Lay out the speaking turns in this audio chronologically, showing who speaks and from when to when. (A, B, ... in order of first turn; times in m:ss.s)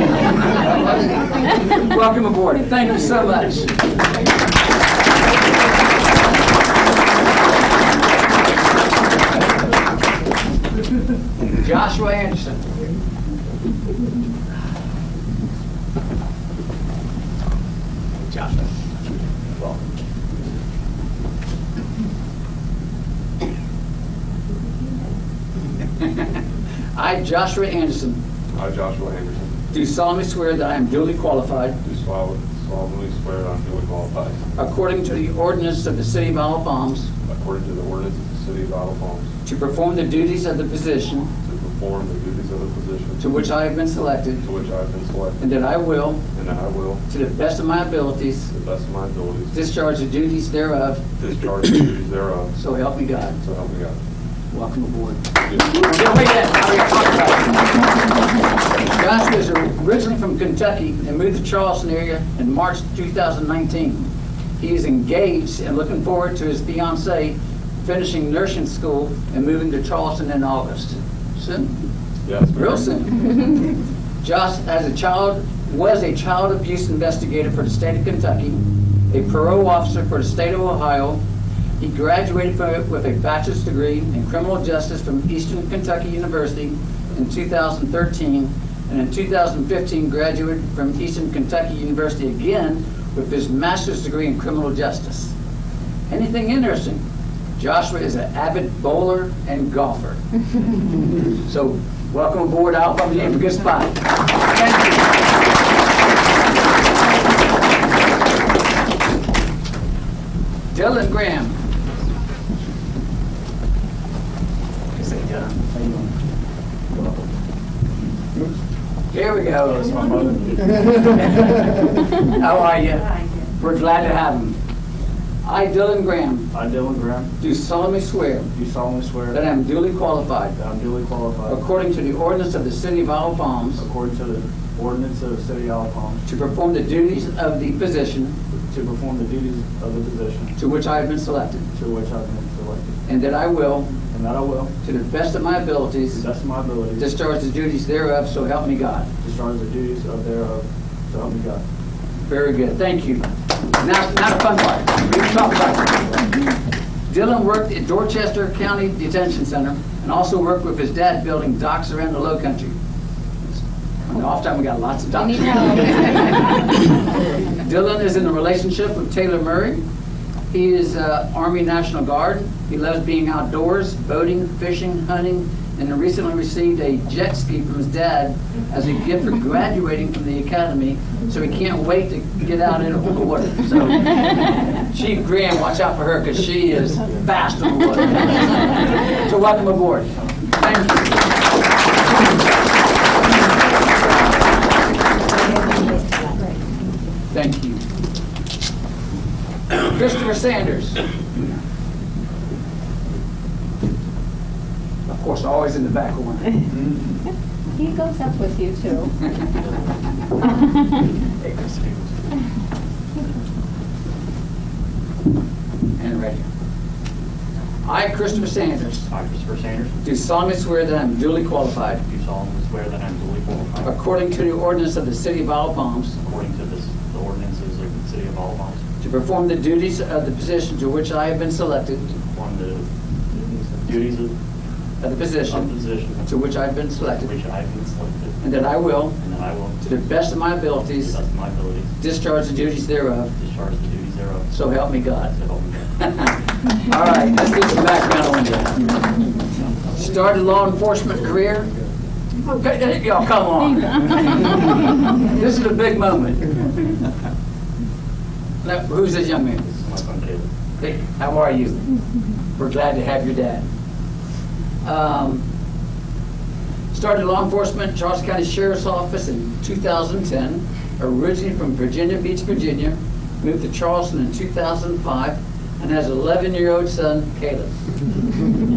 0:00.3-0:03.8 A
0:11.5-0:12.8 A
0:18.3-0:18.6 A
0:26.0-0:26.3 A
0:27.0-0:28.2 A
0:28.6-0:29.6 B
0:29.7-0:31.8 A
0:31.8-0:34.5 B
0:34.6-0:37.1 A
0:37.3-0:39.3 B
0:39.4-0:41.3 A
0:41.4-0:43.2 B
0:43.2-0:44.4 A
0:44.4-0:45.6 B
0:45.4-0:46.2 A
0:46.3-0:47.0 B
0:47.1-0:48.5 A
0:48.5-0:49.6 B
0:49.5-0:51.0 A
0:51.2-0:52.6 B
0:52.6-0:53.4 A
0:53.4-0:54.0 B
0:54.5-0:57.9 A
0:58.8-1:11.7 A
1:12.2-1:13.0 B
1:12.5-1:13.6 A
1:14.2-1:21.2 A
1:21.8-1:35.3 A
1:36.1-1:37.0 A
1:37.6-1:40.2 A
1:41.4-1:45.2 A
1:50.7-1:51.6 A
1:55.0-1:55.5 A
1:55.7-1:56.1 C
1:56.9-1:57.2 C
1:59.1-1:59.9 A
1:59.6-2:01.2 C
2:02.1-2:04.6 A
2:05.4-2:06.5 A
2:06.5-2:07.3 C
2:07.4-2:08.5 A
2:08.5-2:09.4 C
2:09.3-2:10.6 A
2:10.6-2:11.6 C
2:11.5-2:13.8 A
2:13.8-2:16.2 C
2:16.2-2:18.3 A
2:18.7-2:20.5 C
2:20.6-2:21.6 A
2:21.7-2:22.9 C
2:23.0-2:24.0 A
2:24.0-2:24.7 C
2:24.8-2:26.2 A
2:26.1-2:27.0 C
2:27.0-2:29.1 A
2:29.2-2:31.6 C
2:32.2-2:36.2 A
2:37.1-2:42.7 A
2:44.1-2:49.8 A
2:45.4-2:46.5 D
2:50.5-3:11.2 A
3:15.2-3:16.6 D
3:17.3-3:17.8 A
3:19.7-3:21.0 A
3:25.0-3:26.6 A
3:27.7-3:29.1 D
3:29.5-3:30.8 E
3:31.4-3:32.0 E
3:36.0-3:36.4 A
3:37.8-3:39.1 A
3:39.1-3:40.0 E
3:40.0-3:42.0 A
3:42.0-3:44.0 E
3:43.8-3:46.2 A
3:46.2-3:48.8 E
3:49.0-3:52.1 A
3:52.1-3:54.3 E
3:55.0-3:55.7 A
3:55.5-3:56.3 E
3:56.2-3:57.3 A
3:57.0-3:58.5 E
3:58.4-3:59.2 A
3:59.1-3:59.9 E
3:59.8-4:01.2 A
4:00.9-4:01.9 E
4:02.0-4:03.3 A
4:03.4-4:06.0 E
4:04.5-4:05.3 A
4:06.0-4:09.0 A
4:09.9-4:11.7 A
4:12.4-4:16.5 A
4:18.6-4:19.6 A
4:19.6-4:20.5 E
4:20.8-4:21.8 A
4:22.6-4:23.6 A
4:24.8-4:25.4 A
4:26.9-4:37.8 A